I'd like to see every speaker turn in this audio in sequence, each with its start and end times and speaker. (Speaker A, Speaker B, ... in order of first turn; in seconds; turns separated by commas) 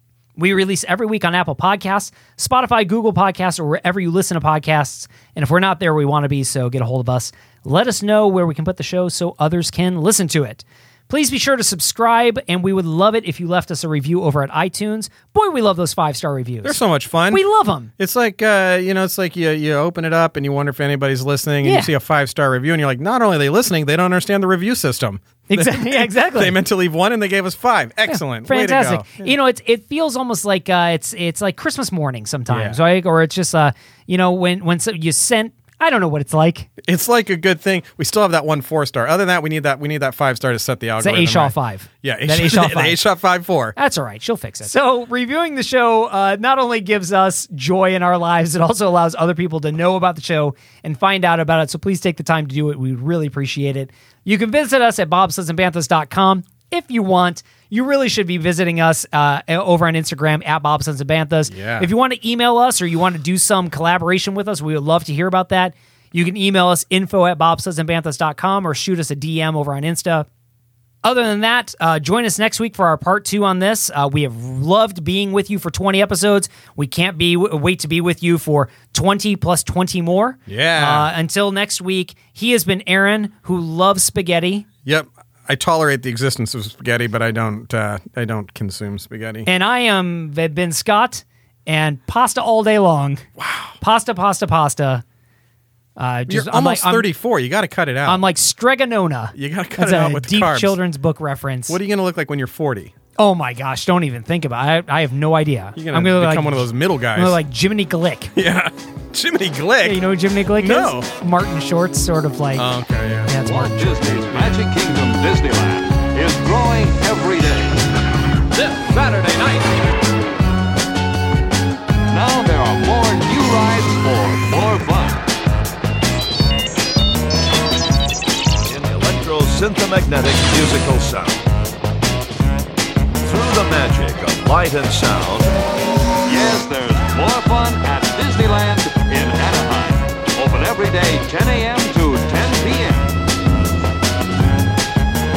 Speaker A: 0.3-16.8, Speaker B: 16.6-17.4, Speaker A: 17.3-17.9, Speaker B: 18.0-29.3, Speaker A: 21.6-21.9, Speaker A: 25.5-26.6, Speaker A: 28.1-36.7, Speaker B: 32.5-32.8, Speaker B: 36.8-43.7, Speaker A: 41.0-43.0, Speaker A: 43.8-70.3, Speaker B: 61.5-61.9, Speaker A: 71.0-84.7, Speaker B: 80.5-81.1, Speaker B: 84.8-89.5, Speaker A: 89.5-93.2, Speaker B: 93.4-93.7, Speaker A: 93.8-95.0, Speaker A: 96.0-97.1, Speaker B: 96.3-98.2, Speaker A: 98.0-101.8, Speaker B: 99.3-100.8, Speaker B: 101.7-102.9, Speaker A: 103.2-108.3, Speaker B: 105.8-107.4, Speaker B: 108.3-111.1, Speaker A: 109.8-112.7, Speaker B: 112.5-113.3, Speaker A: 113.2-114.5, Speaker C: 113.4-117.9, Speaker C: 118.5-119.9, Speaker C: 122.1-125.3, Speaker D: 128.6-131.4, Speaker D: 133.2-135.6, Speaker C: 136.2-143.1